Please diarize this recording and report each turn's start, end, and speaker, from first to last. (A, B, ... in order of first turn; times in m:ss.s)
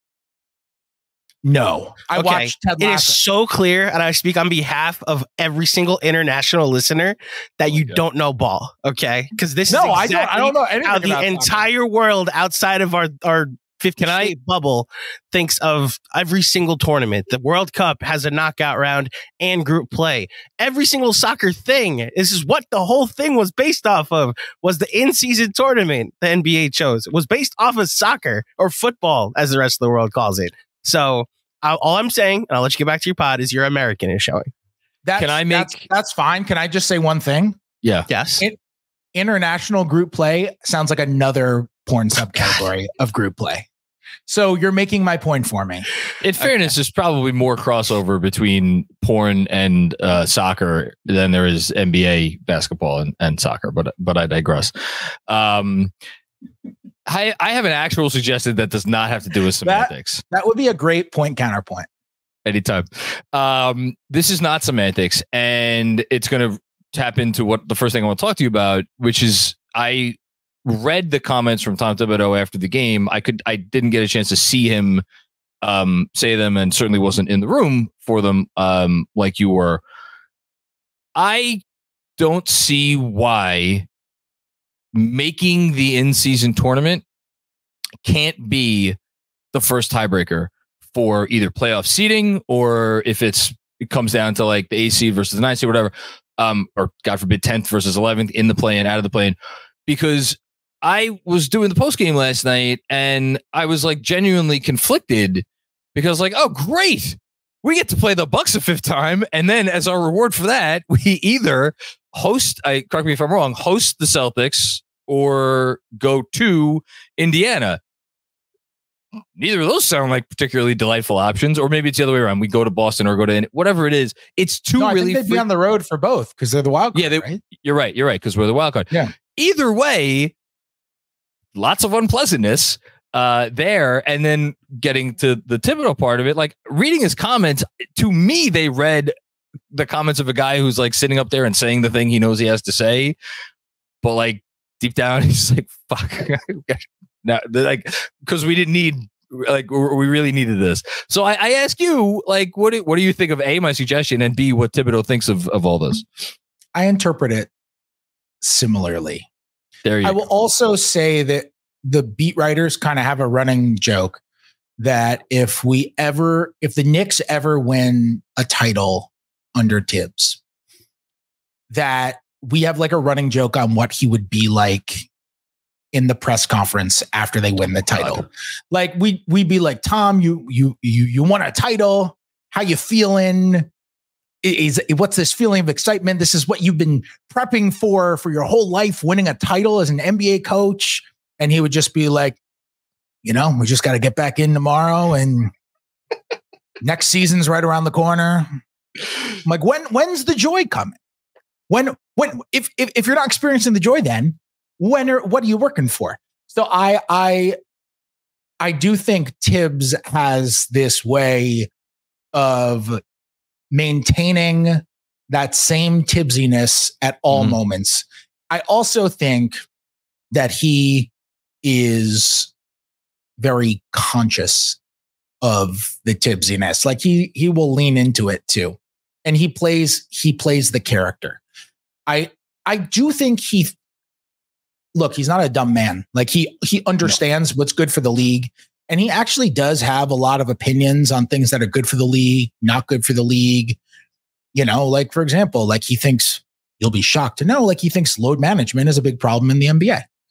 0:01.4-0:03.2 A
0:02.1-0:34.5 B
0:07.7-0:08.0 C
0:09.7-0:11.7 A
0:14.0-0:14.3 A
0:35.0-0:37.6 A
0:35.2-0:35.8 C
0:38.1-0:38.4 B
0:39.2-0:43.7 A
0:44.3-0:45.9 A
0:46.2-0:54.7 C
0:46.4-0:46.7 A
0:55.3-0:55.9 C
0:57.1-1:00.2 C
0:59.6-1:01.9 A
1:02.5-1:15.0 C
1:15.6-1:19.8 C
1:21.2-1:21.6 C
1:22.2-1:23.9 C
1:24.9-1:27.0 C
1:28.0-1:29.0 C
1:29.5-1:57.8 C
1:59.4-2:05.5 C
2:04.8-2:07.4 A
2:06.9-2:10.3 C
2:11.6-2:19.1 C
2:19.7-2:23.2 C
2:24.0-2:36.2 C
2:36.8-2:37.5 A
2:38.4-2:39.3 A
2:39.8-2:40.3 C
2:40.0-2:44.2 A
2:44.8-2:50.4 A
2:51.7-2:55.1 A
2:55.9-3:03.7 A
3:04.4-3:12.4 A
3:13.2-3:15.5 A
3:16.8-3:18.6 A
3:19.4-3:21.0 A
3:21.7-3:27.6 A
3:28.6-3:31.7 A
3:32.3-3:33.0 A
3:33.7-3:39.6 A
3:40.3-3:41.1 A
3:41.6-3:42.5 A
3:43.4-3:44.8 A
3:45.4-3:51.4 A
3:52.1-3:53.8 A
3:54.9-4:03.8 A
4:04.5-4:10.0 A